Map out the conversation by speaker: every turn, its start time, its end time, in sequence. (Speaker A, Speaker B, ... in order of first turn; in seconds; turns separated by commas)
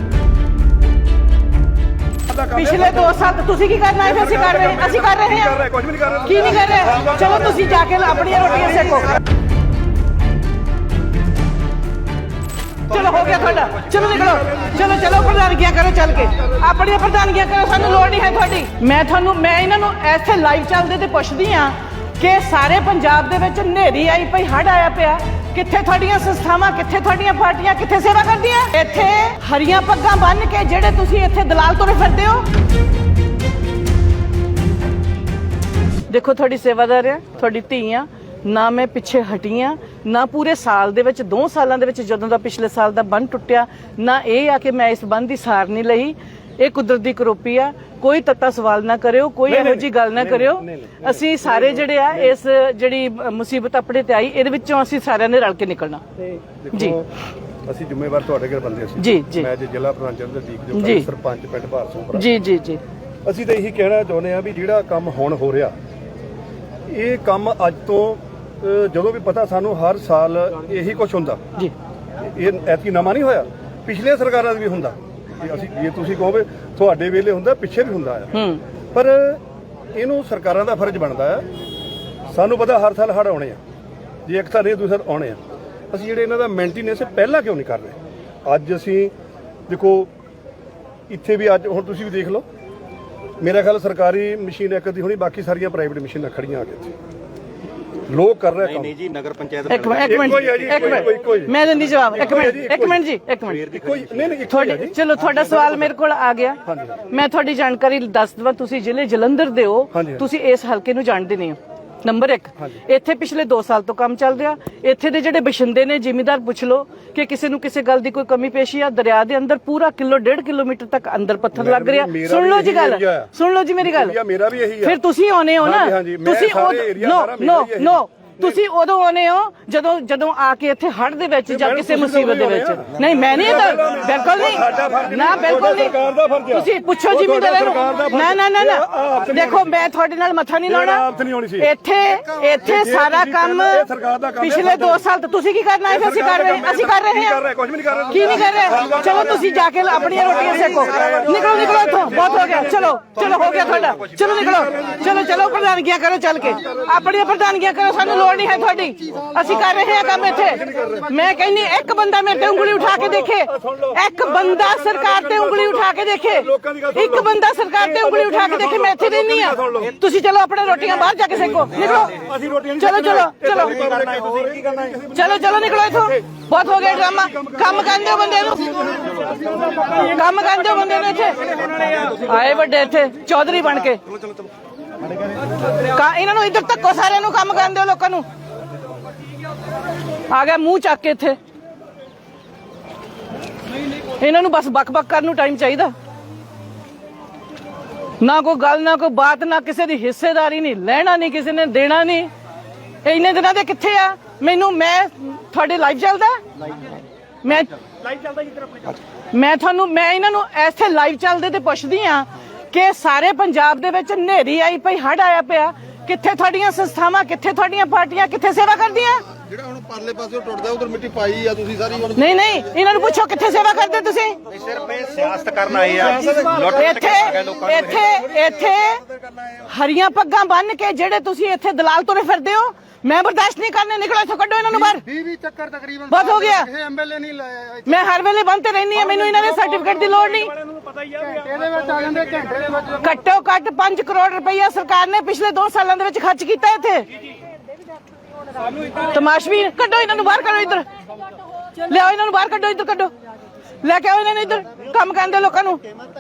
Speaker A: 2.3-3.2, Speaker B: 2.5-5.6, Speaker A: 4.0-7.6, Speaker B: 6.2-9.2, Speaker B: 12.9-32.5, Speaker B: 36.1-57.0, Speaker A: 49.5-52.4, Speaker A: 56.6-57.1, Speaker A: 57.6-62.3, Speaker B: 59.0-59.5, Speaker B: 60.7-61.1, Speaker B: 62.1-62.8, Speaker A: 63.2-65.8, Speaker A: 66.9-71.4, Speaker A: 72.2-79.4, Speaker B: 78.3-78.6, Speaker A: 79.9-81.5, Speaker A: 82.3-83.6, Speaker A: 84.2-89.1, Speaker A: 89.7-90.1, Speaker A: 91.1-92.5, Speaker A: 93.4-97.0, Speaker A: 98.0-99.0, Speaker C: 98.7-100.8, Speaker B: 99.7-103.6, Speaker A: 100.0-103.0, Speaker C: 103.5-104.4, Speaker A: 103.6-105.0, Speaker B: 104.4-124.2, Speaker A: 106.7-107.0, Speaker A: 109.9-110.3, Speaker A: 121.5-125.0, Speaker B: 124.8-136.0, Speaker A: 125.6-128.6, Speaker A: 131.5-139.8, Speaker B: 136.5-141.1, Speaker A: 140.7-141.7, Speaker B: 141.6-143.9, Speaker A: 142.6-145.1, Speaker B: 144.4-147.4, Speaker A: 145.9-149.5, Speaker B: 148.1-172.2, Speaker A: 150.0-155.4, Speaker A: 160.0-161.1, Speaker A: 162.4-169.9, Speaker A: 171.9-176.2, Speaker B: 172.8-173.9, Speaker C: 173.8-174.9, Speaker B: 175.1-179.1, Speaker A: 176.8-177.7, Speaker B: 179.7-184.0, Speaker B: 185.8-188.3, Speaker B: 190.3-191.4, Speaker B: 194.0-195.9, Speaker B: 198.2-202.3, Speaker B: 203.0-206.4, Speaker B: 207.4-207.8, Speaker B: 209.3-219.3, Speaker D: 219.5-222.1, Speaker B: 222.0-224.4, Speaker C: 224.5-228.2, Speaker B: 226.7-235.2, Speaker D: 235.2-236.0, Speaker B: 236.0-236.9, Speaker D: 236.8-237.8, Speaker B: 237.8-240.6, Speaker D: 241.2-242.8, Speaker B: 242.8-247.1, Speaker B: 248.8-250.8, Speaker B: 251.8-253.1, Speaker B: 253.8-255.8